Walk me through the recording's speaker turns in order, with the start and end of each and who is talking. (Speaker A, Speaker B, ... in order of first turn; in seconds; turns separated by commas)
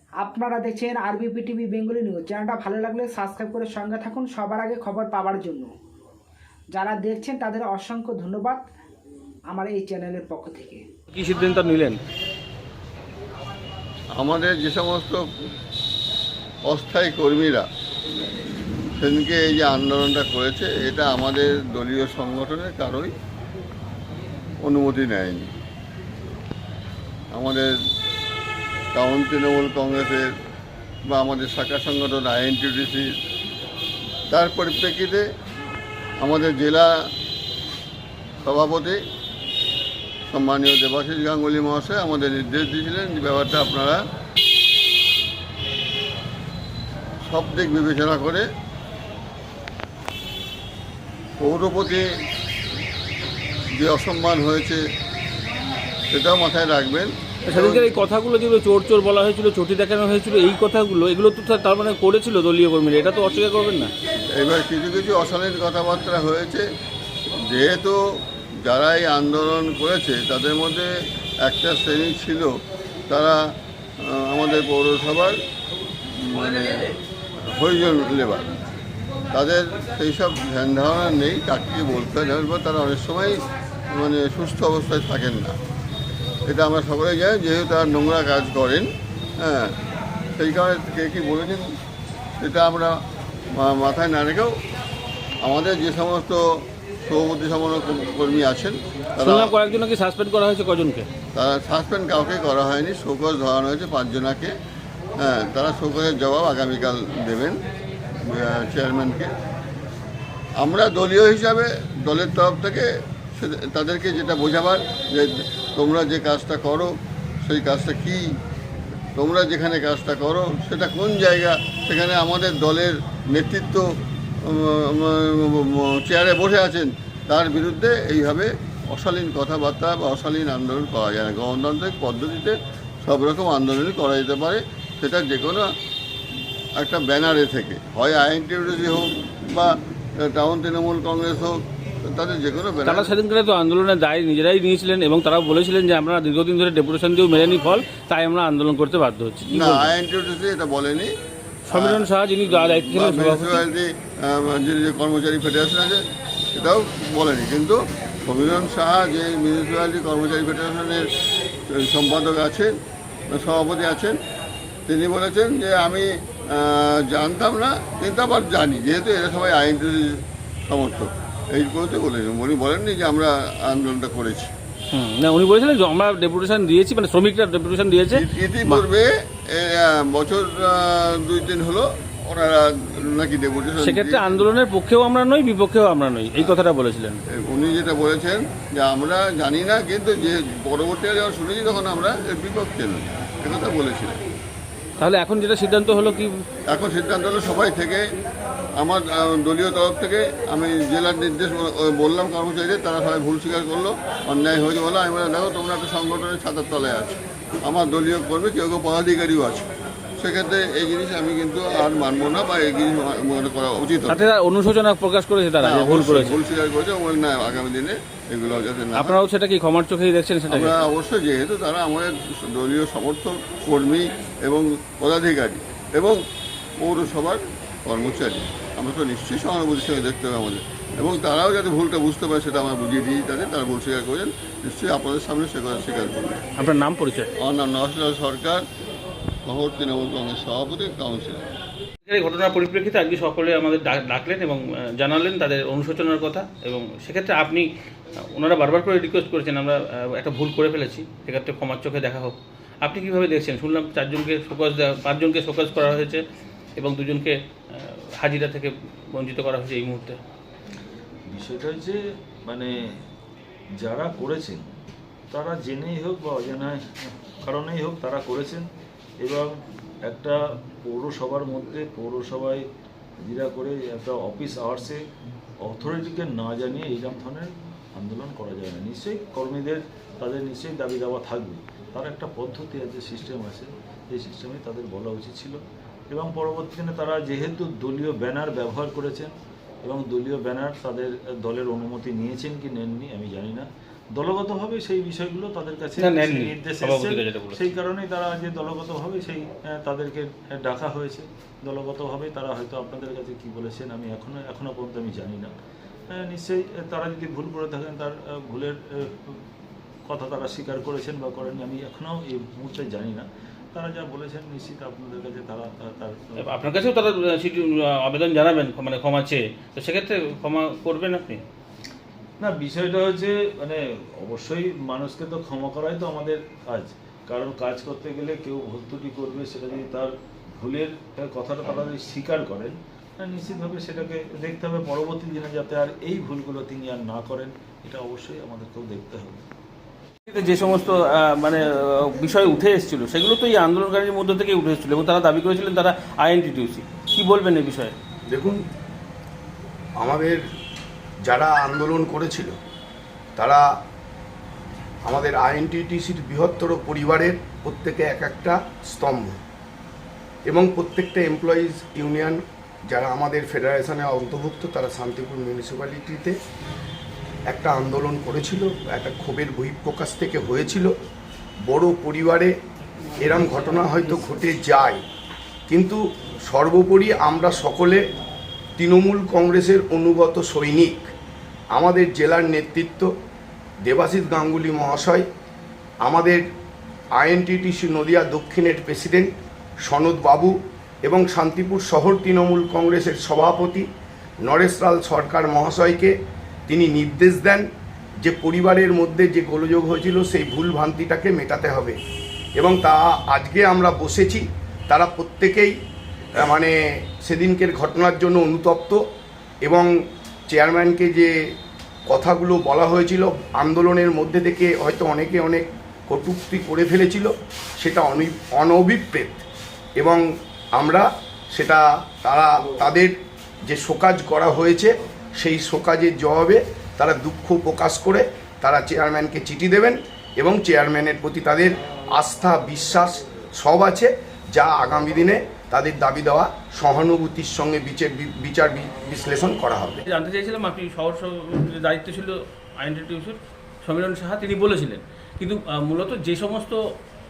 Speaker A: 0.2-5.7, Speaker A: 6.7-8.7, Speaker A: 9.5-10.8, Speaker B: 11.1-12.0, Speaker C: 14.1-15.2, Speaker C: 16.6-17.7, Speaker C: 19.0-23.1, Speaker C: 24.6-25.5, Speaker C: 27.3-27.7, Speaker C: 28.9-30.3, Speaker C: 31.1-33.1, Speaker C: 34.3-35.2, Speaker C: 36.2-36.9, Speaker C: 38.4-39.0, Speaker C: 40.3-44.0, Speaker C: 47.2-48.5, Speaker C: 51.4-52.0, Speaker C: 53.7-54.8, Speaker C: 56.1-57.9, Speaker B: 57.5-63.9, Speaker C: 64.3-66.7, Speaker C: 67.4-70.9, Speaker C: 71.4-72.6, Speaker C: 73.1-73.4, Speaker C: 74.0-75.4, Speaker C: 76.1-78.4, Speaker C: 79.3-85.6, Speaker C: 86.4-89.8, Speaker C: 90.3-91.7, Speaker C: 92.4-93.0, Speaker C: 93.5-94.6, Speaker C: 95.4-99.5, Speaker B: 99.2-101.1, Speaker C: 101.3-104.5, Speaker C: 105.2-107.6, Speaker C: 108.2-109.3, Speaker C: 110.6-118.3, Speaker C: 119.2-123.9, Speaker C: 124.4-135.7, Speaker C: 136.8-143.1, Speaker B: 142.8-149.9, Speaker C: 149.5-151.1, Speaker B: 151.7-153.6, Speaker C: 151.7-161.0, Speaker C: 161.7-162.8, Speaker C: 163.3-164.2, Speaker C: 164.9-174.5, Speaker B: 174.9-178.8, Speaker C: 178.1-184.4, Speaker B: 183.8-187.2, Speaker C: 187.3-194.2, Speaker B: 195.0-196.4, Speaker C: 196.7-198.1, Speaker C: 198.8-209.7, Speaker C: 210.2-214.2, Speaker B: 214.1-216.4, Speaker C: 215.6-219.2, Speaker B: 219.0-220.8, Speaker C: 220.5-226.2, Speaker C: 226.8-236.4, Speaker B: 236.6-237.3, Speaker C: 237.4-238.7, Speaker C: 239.4-241.5, Speaker B: 242.1-247.7, Speaker B: 248.3-256.2, Speaker B: 256.8-260.2, Speaker D: 261.3-262.7, Speaker D: 263.8-264.6, Speaker D: 265.3-268.7, Speaker D: 269.2-269.5, Speaker D: 270.1-272.6, Speaker D: 273.2-275.0, Speaker D: 275.6-305.5, Speaker B: 296.0-297.6, Speaker D: 306.1-309.4, Speaker D: 310.1-316.5, Speaker B: 316.4-321.4, Speaker D: 322.4-339.4, Speaker B: 340.3-347.9, Speaker E: 348.3-348.6, Speaker E: 350.0-350.4, Speaker E: 351.2-352.5, Speaker E: 353.4-353.6, Speaker E: 355.1-359.4, Speaker E: 360.5-366.4, Speaker E: 367.5-370.9, Speaker E: 371.6-372.5, Speaker E: 373.2-375.0, Speaker E: 375.7-378.0, Speaker E: 378.8-381.1, Speaker E: 381.8-383.1, Speaker E: 383.9-385.2, Speaker E: 386.0-386.4, Speaker E: 387.2-389.3, Speaker E: 389.9-390.5, Speaker E: 391.1-393.9, Speaker E: 394.4-396.1, Speaker E: 396.7-397.6, Speaker E: 398.2-402.0, Speaker E: 402.6-405.7, Speaker E: 406.4-409.0, Speaker E: 409.6-409.9, Speaker E: 410.5-411.3, Speaker E: 412.1-419.4, Speaker E: 420.0-420.2, Speaker E: 420.8-423.1, Speaker E: 423.6-440.0, Speaker B: 440.1-446.8